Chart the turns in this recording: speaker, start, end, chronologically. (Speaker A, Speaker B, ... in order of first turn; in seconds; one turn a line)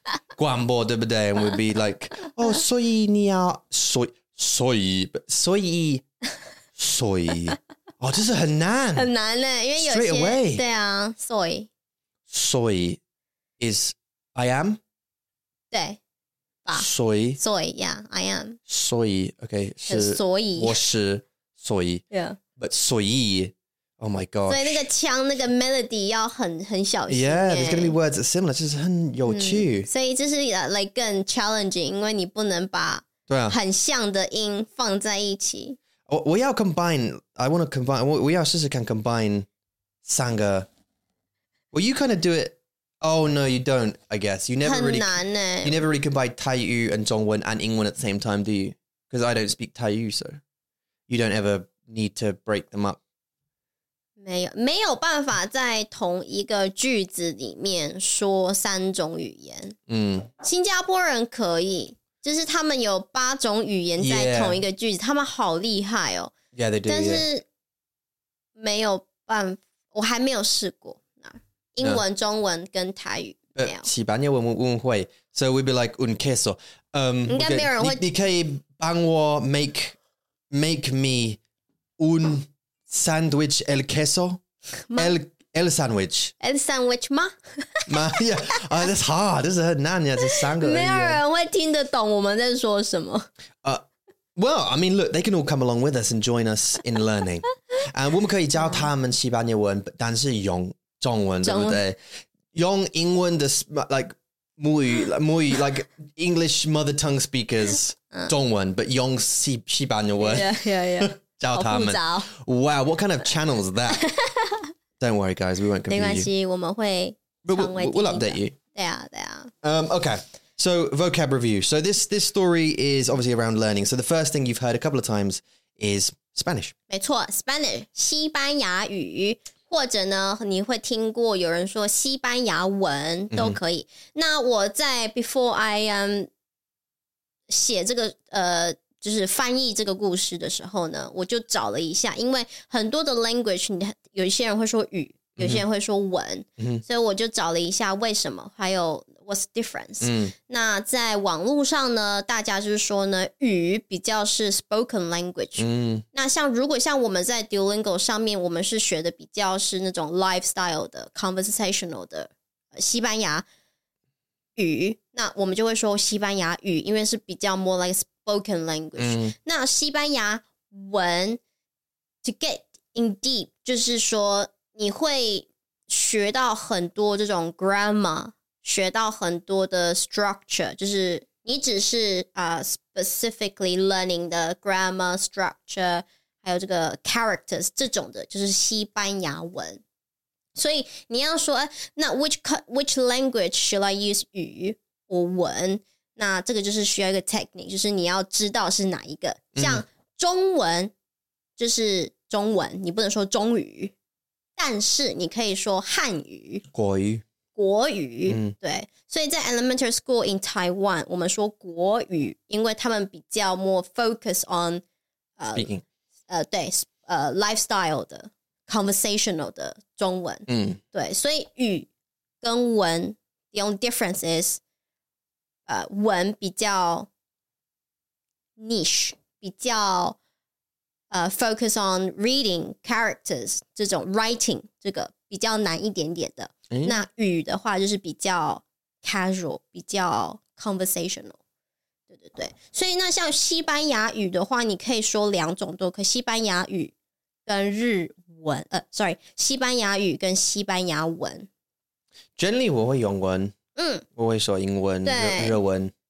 Speaker A: 0.4-6.0
Speaker A: 6.8-9.1
Speaker B: 8.9-11.7
Speaker A: 9.8-10.6
Speaker A: 12.3-13.0
Speaker A: 13.6-14.8
Speaker B: 15.7-16.0
Speaker B: 16.6-18.6
Speaker A: 16.7-17.4
Speaker A: 18.7-22.0
Speaker B: 19.9-20.8
Speaker B: 22.1-22.4
Speaker A: 22.6-24.9
Speaker B: 24.5-28.0
Speaker A: 27.1-29.9
Speaker B: 29.3-35.8
Speaker A: 33.3-33.6
Speaker A: 36.1-39.5
Speaker A: 40.0-40.7
Speaker A: 41.7-50.4
Speaker B: 44.6-45.8
Speaker A: 51.1-53.0
Speaker B: 54.2-59.8
Speaker A: 59.9-60.3
Speaker B: 60.4-66.3
Speaker A: 64.0-64.6
Speaker A: 66.5-67.2
Speaker B: 66.9-67.5
Speaker B: 68.6-73.9
Speaker A: 73.6-80.0
Speaker B: 77.3-78.0
Speaker A: 80.5-81.4
Speaker A: 82.0-84.4
Speaker B: 84.9-85.2
Speaker A: 85.0-86.3
Speaker B: 86.4-88.6
Speaker A: 87.9-91.2
Speaker B: 90.2-93.3
Speaker A: 94.4-102.0
Speaker B: 98.6-98.9
Speaker B: 101.4-101.8
Speaker A: 102.5-114.1
Speaker B: 110.2-112.3
Speaker B: 113.9-114.7
Speaker A: 115.0-116.3
Speaker B: 115.9-119.5
Speaker A: 117.4-118.5
Speaker A: 119.6-126.7
Speaker B: 126.9-136.3
Speaker A: 133.3-133.6
Speaker B: 137.5-163.4
Speaker A: 145.4-145.6
Speaker A: 146.6-146.8
Speaker A: 150.0-150.3
Speaker A: 155.6-156.1
Speaker B: 164.6-171.4
Speaker A: 169.0-169.3
Speaker B: 172.2-189.8
Speaker B: 190.6-200.9
Speaker A: 199.6-199.8
Speaker B: 201.6-203.9
Speaker B: 204.6-206.6
Speaker A: 206.7-207.2
Speaker B: 207.6-214.8
Speaker A: 208.3-208.5
Speaker B: 215.4-215.7
Speaker A: 215.6-215.8
Speaker B: 216.3-221.9
Speaker A: 220.5-220.8
Speaker B: 222.4-224.6
Speaker B: 225.7-227.1
Speaker B: 228.6-230.2
Speaker B: 231.1-241.4
Speaker B: 242.1-246.9
Speaker B: 247.5-251.5
Speaker A: 252.4-253.6
Speaker B: 253.8-254.1
Speaker A: 254.2-255.9
Speaker B: 255.1-255.6